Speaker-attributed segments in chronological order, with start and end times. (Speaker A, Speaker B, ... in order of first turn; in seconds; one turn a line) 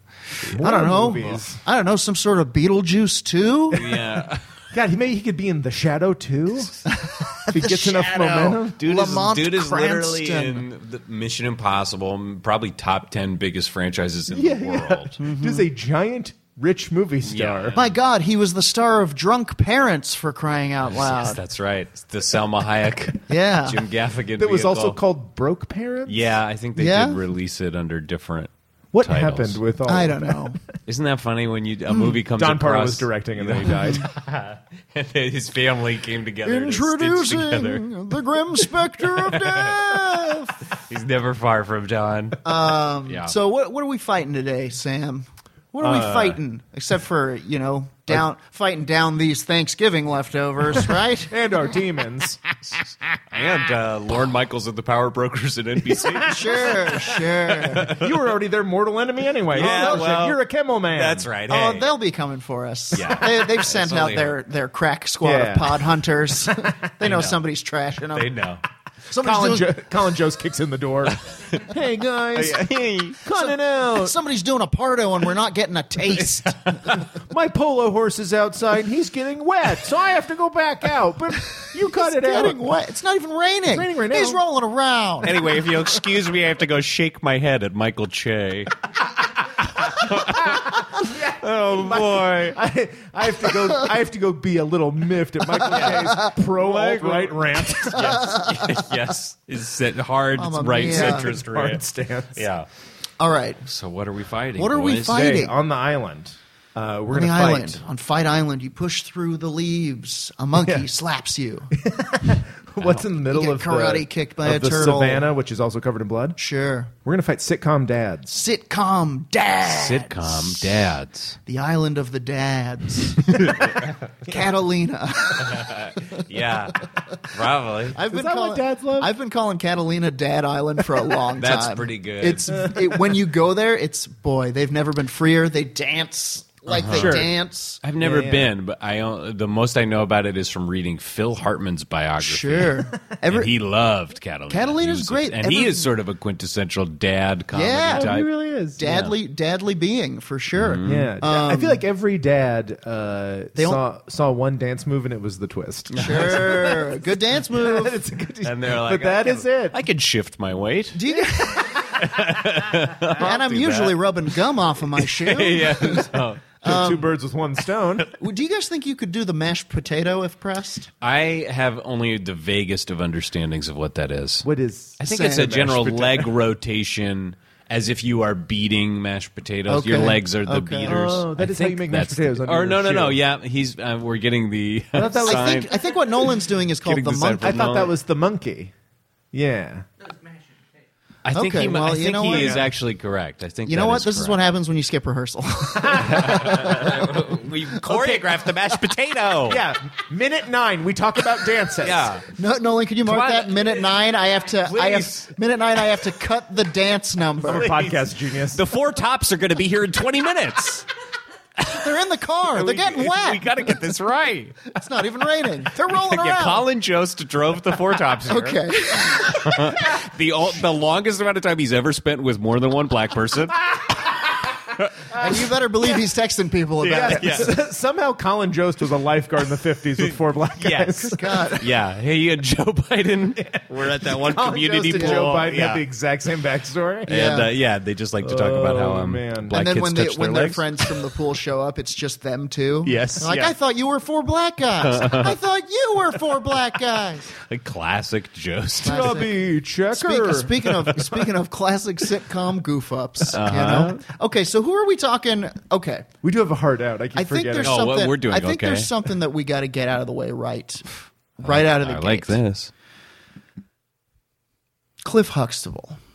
Speaker A: 0.5-1.6
Speaker B: 0.6-3.9
Speaker C: 3.7-4.5
Speaker A: 4.7-6.8
Speaker B: 6.9-10.6
Speaker A: 7.5-8.8
Speaker C: 8.8-15.2
Speaker A: 14.3-17.8
Speaker B: 15.2-15.7
Speaker C: 17.3-18.0
Speaker B: 17.8-21.4
Speaker C: 20.8-25.0
Speaker B: 23.3-23.8
Speaker A: 24.4-26.4
Speaker C: 26.1-29.6
Speaker B: 26.8-27.2
Speaker A: 28.9-30.6
Speaker B: 29.9-30.6
Speaker C: 30.9-37.9
Speaker B: 31.9-32.2
Speaker A: 32.4-34.1
Speaker B: 33.7-34.0
Speaker B: 36.5-40.6
Speaker C: 38.5-43.4
Speaker B: 42.5-51.3
Speaker A: 45.8-46.2
Speaker C: 45.8-46.4
Speaker A: 50.7-52.4
Speaker C: 53.3-58.2
Speaker A: 56.0-57.0
Speaker B: 56.2-57.9
Speaker A: 57.8-61.3
Speaker C: 59.5-60.4
Speaker B: 59.5-60.2
Speaker C: 60.9-61.9
Speaker B: 61.5-68.4
Speaker C: 62.9-64.4
Speaker A: 65.2-65.9
Speaker C: 67.0-67.4
Speaker C: 68.1-68.6
Speaker B: 69.1-69.7
Speaker A: 69.2-72.6
Speaker C: 71.1-71.7
Speaker C: 72.3-73.2
Speaker A: 73.2-74.2
Speaker B: 73.4-77.0
Speaker A: 77.0-82.6
Speaker B: 81.9-85.7
Speaker A: 83.7-84.4
Speaker C: 85.2-88.8
Speaker C: 89.4-92.6
Speaker A: 90.9-98.3
Speaker B: 95.6-96.4
Speaker C: 95.7-101.8
Speaker B: 97.7-99.0
Speaker B: 100.4-101.3
Speaker A: 100.8-102.5
Speaker C: 102.3-102.7
Speaker B: 103.2-103.6
Speaker C: 103.7-105.3
Speaker B: 104.6-105.5
Speaker A: 105.0-107.8
Speaker B: 107.1-111.7
Speaker A: 110.5-110.9
Speaker A: 111.7-116.4
Speaker B: 113.2-115.3
Speaker B: 116.4-116.9
Speaker A: 117.0-118.4
Speaker B: 118.3-120.8
Speaker C: 119.6-121.4
Speaker B: 121.5-126.2
Speaker C: 123.5-123.9
Speaker C: 125.4-128.0
Speaker B: 127.9-137.8
Speaker A: 128.1-129.1
Speaker C: 131.4-132.8
Speaker A: 132.8-133.1
Speaker C: 136.7-137.3
Speaker A: 136.9-137.3
Speaker C: 137.8-148.3
Speaker A: 138.0-138.5
Speaker B: 142.2-143.5
Speaker B: 144.5-145.9
Speaker B: 147.5-148.1
Speaker A: 147.9-149.1
Speaker B: 148.8-151.8
Speaker C: 148.8-149.1
Speaker C: 150.6-151.1
Speaker A: 150.8-159.8
Speaker B: 153.6-153.8
Speaker C: 155.9-156.8
Speaker B: 156.0-158.0
Speaker C: 158.4-161.0
Speaker B: 160.9-161.8
Speaker A: 161.1-163.3
Speaker C: 162.0-164.4
Speaker B: 163.2-167.1
Speaker C: 164.9-166.7
Speaker A: 166.6-168.1
Speaker B: 168.2-170.9
Speaker C: 171.0-174.5
Speaker A: 174.4-176.3
Speaker C: 175.0-187.9
Speaker B: 175.1-175.6
Speaker B: 179.7-181.2
Speaker A: 180.9-183.2
Speaker A: 184.9-185.7
Speaker B: 185.2-187.7
Speaker A: 187.4-188.7
Speaker A: 189.3-189.9
Speaker C: 191.2-194.4
Speaker B: 191.3-192.7
Speaker A: 192.2-192.7
Speaker B: 193.7-197.3
Speaker A: 195.8-196.7
Speaker C: 196.1-199.6
Speaker A: 197.8-198.2
Speaker A: 199.5-202.1
Speaker C: 201.8-202.3
Speaker B: 202.4-207.8
Speaker C: 203.1-203.9
Speaker C: 204.6-205.3
Speaker A: 207.4-208.6
Speaker C: 207.4-210.9
Speaker C: 211.6-211.9
Speaker B: 211.7-213.4
Speaker C: 212.5-214.6
Speaker B: 214.7-216.7
Speaker C: 215.8-224.1
Speaker B: 218.3-219.8
Speaker C: 224.8-225.2
Speaker B: 225.1-227.5
Speaker C: 226.8-227.5
Speaker A: 226.8-231.2
Speaker C: 230.0-235.8
Speaker B: 231.1-231.7
Speaker A: 233.4-237.3
Speaker B: 234.9-235.3
Speaker B: 237.1-237.5
Speaker C: 237.1-241.1
Speaker A: 238.2-239.6
Speaker B: 239.5-247.3
Speaker C: 242.8-243.6
Speaker C: 244.8-245.4
Speaker C: 247.3-249.3
Speaker A: 248.8-251.1
Speaker B: 248.8-256.1
Speaker C: 253.3-254.0
Speaker A: 256.2-257.9
Speaker B: 257.1-262.4
Speaker C: 257.6-258.9
Speaker C: 261.4-262.7
Speaker B: 265.0-266.0